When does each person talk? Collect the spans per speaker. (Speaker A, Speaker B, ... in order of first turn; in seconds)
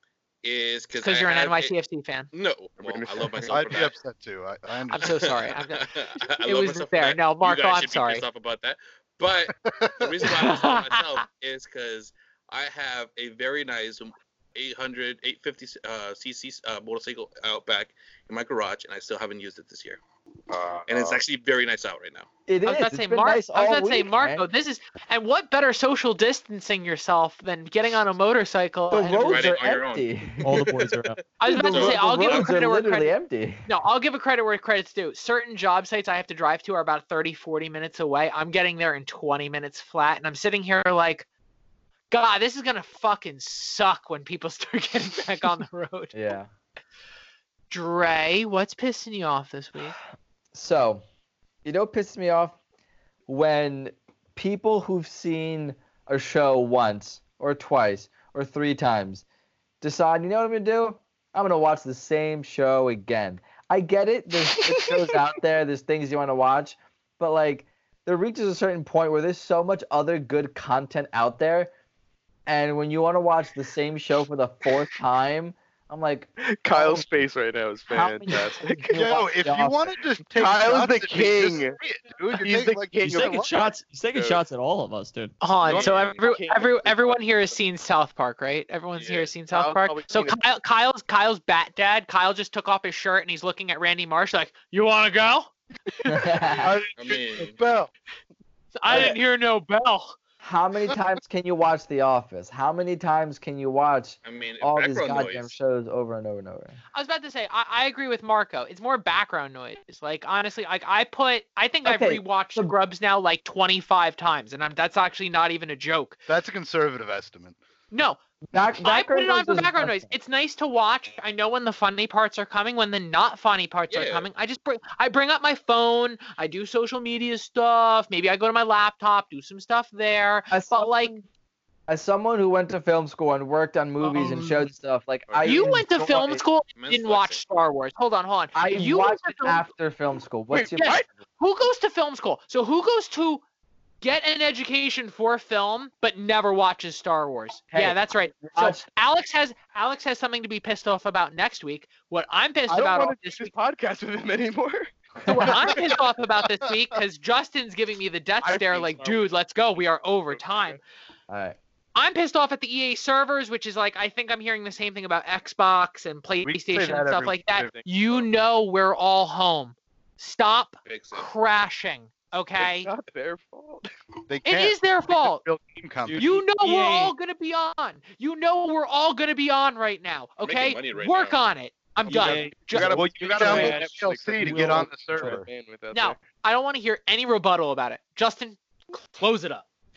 Speaker A: 0.4-1.7, 2.3-3.9, 5.8-20.0, 20.9-22.3, 29.1-31.1, 31.7-32.5, 85.6-86.2, 89.0-89.3, 97.0-97.6, 104.2-105.5, 123.9-124.2, 135.3-135.8, 136.8-137.4, 170.8-171.3, 180.4-181.4
Speaker B: 1.0-2.3, 4.9-8.2, 10.2-11.2, 22.6-29.5, 31.4-41.3, 42.1-46.1, 47.7-50.0, 85.4-96.4, 98.8-100.2, 106.9-116.2, 117.9-118.2, 118.8-131.2, 134.1-134.4, 135.4-139.6, 140.7-143.4, 144.0-153.5, 155.2-160.8, 161.9-172.9, 174.4-175.4, 176.2-183.0, 185.9-189.7
Speaker C: 2.8-3.5, 20.5-21.2, 76.4-79.2, 80.3-81.8, 82.3-84.4, 85.6-87.6, 89.5-90.4, 140.5-141.0, 152.7-154.9, 155.6-155.9, 158.4-159.2, 167.1-168.2, 172.6-173.9, 182.9-186.2
Speaker D: 3.5-5.1, 9.7-10.3, 78.9-83.5, 96.6-97.9, 116.3-117.6, 166.4-167.4, 174.3-176.2, 182.7-185.4
Speaker E: 22.5-24.5, 28.9-30.5, 31.4-33.7, 46.1-46.5, 50.5-51.0, 51.6-52.6, 53.3-59.2, 59.8-71.7, 72.5-77.1, 77.9-79.9, 96.1-96.7, 98.9-99.2, 100.4-106.8, 111.8-112.7, 118.5-120.1, 130.5-131.2, 131.9-136.4, 138.5-141.1, 147.7-148.8, 155.2-155.7, 161.3-161.6
Speaker F: 30.4-31.2, 83.1-85.4, 176.0-177.1, 182.1-185.4